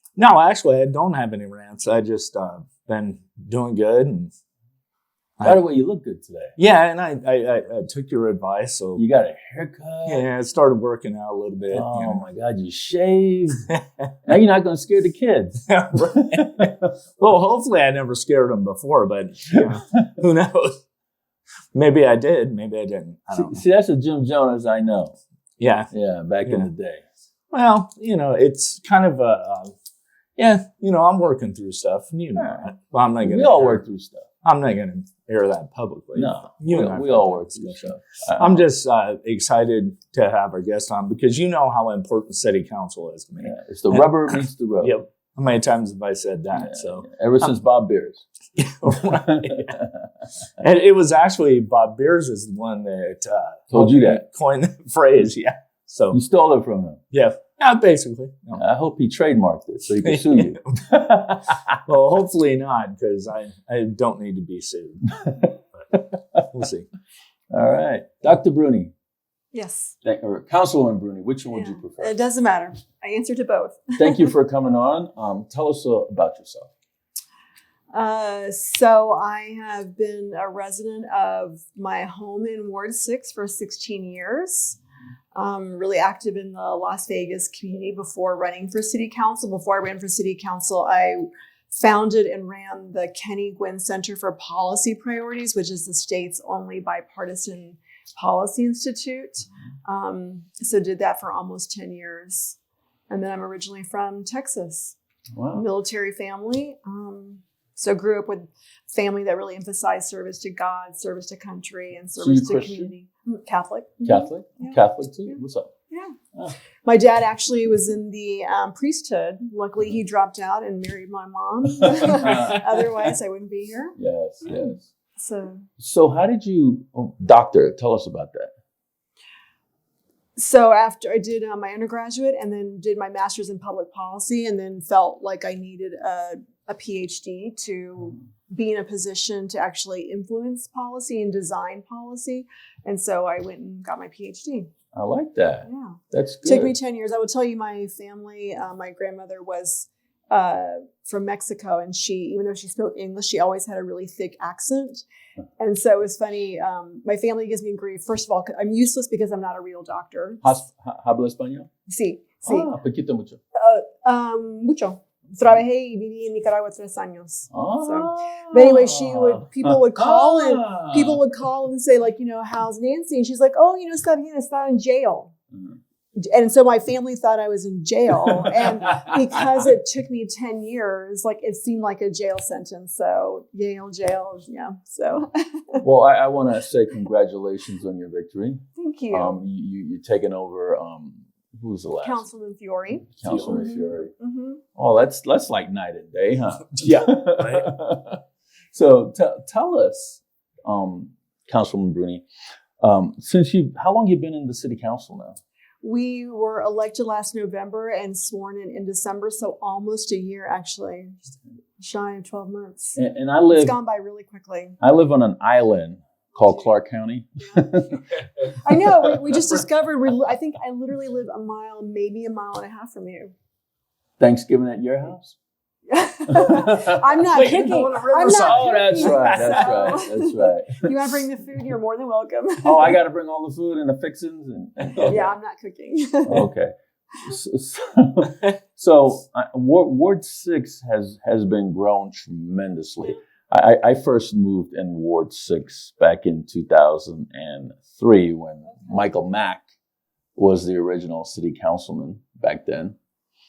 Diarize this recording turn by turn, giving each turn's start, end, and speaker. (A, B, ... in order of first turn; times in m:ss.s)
0:00.2-0:04.3 A
0:05.4-0:06.5 B
0:06.6-0:09.0 A
0:09.0-0:10.2 B
0:10.0-0:12.2 A
0:11.7-0:13.7 B
0:14.2-0:15.6 B
0:15.7-0:20.8 A
0:16.3-0:16.7 B
0:21.7-0:23.6 A
0:23.3-0:25.2 B
0:25.6-0:25.9 A
0:25.9-0:27.0 B
0:27.5-0:29.7 A
0:30.4-0:33.8 A
0:32.4-0:32.7 B
0:33.2-0:34.3 B
0:34.4-0:47.5 A
0:36.1-0:38.6 B
0:43.4-0:44.9 B
0:46.6-0:48.2 B
0:48.6-0:49.8 A
0:49.1-0:49.9 B
0:50.6-0:56.2 A
0:53.7-0:54.2 B
0:56.1-0:57.0 B
0:57.1-0:58.6 A
0:58.6-1:01.6 B
1:00.0-1:00.8 A
1:01.9-1:05.2 A
1:06.4-1:06.9 A
1:07.5-1:08.9 B
1:09.5-1:09.9 C
1:10.0-1:12.1 B
1:11.5-1:14.3 C
1:14.0-1:16.7 B
1:17.9-1:24.8 C
1:25.3-1:42.6 C
1:43.1-1:45.0 C
1:45.3-1:45.6 B
1:45.5-1:55.4 C
1:52.2-1:52.9 B
1:54.0-1:55.7 B
1:55.9-1:56.2 C
1:56.8-2:05.6 C
2:01.8-2:02.6 B
2:04.0-2:04.8 B
2:05.8-2:08.5 B
2:10.4-2:24.7 C
2:24.9-2:26.7 B
2:25.6-2:35.0 C
2:35.6-2:40.4 C
2:40.4-2:41.7 B
2:41.9-2:42.7 C
2:42.4-2:43.4 B
2:43.5-2:55.3 C
2:47.5-2:51.2 B
2:56.2-3:05.8 C
3:05.8-3:12.2 B
3:08.8-3:09.4 C
3:12.0-3:14.6 C
3:13.2-3:14.1 B
3:14.8-3:18.2 B
3:16.8-3:17.1 A
3:18.7-3:22.2 B
3:22.8-3:25.4 B
3:25.8-3:33.0 C
3:33.0-3:33.8 B
3:33.5-3:34.8 C
3:34.8-3:38.0 B
3:37.4-3:37.7 C
3:38.5-3:43.3 C
3:44.2-3:45.4 B
3:45.9-3:53.0 C
3:46.3-3:47.6 B
3:47.3-3:50.0 A
3:48.3-3:50.9 B
3:52.6-3:55.3 B
3:55.0-3:56.5 C
3:56.3-4:09.7 B
4:08.7-4:09.1 C
4:10.4-4:13.0 B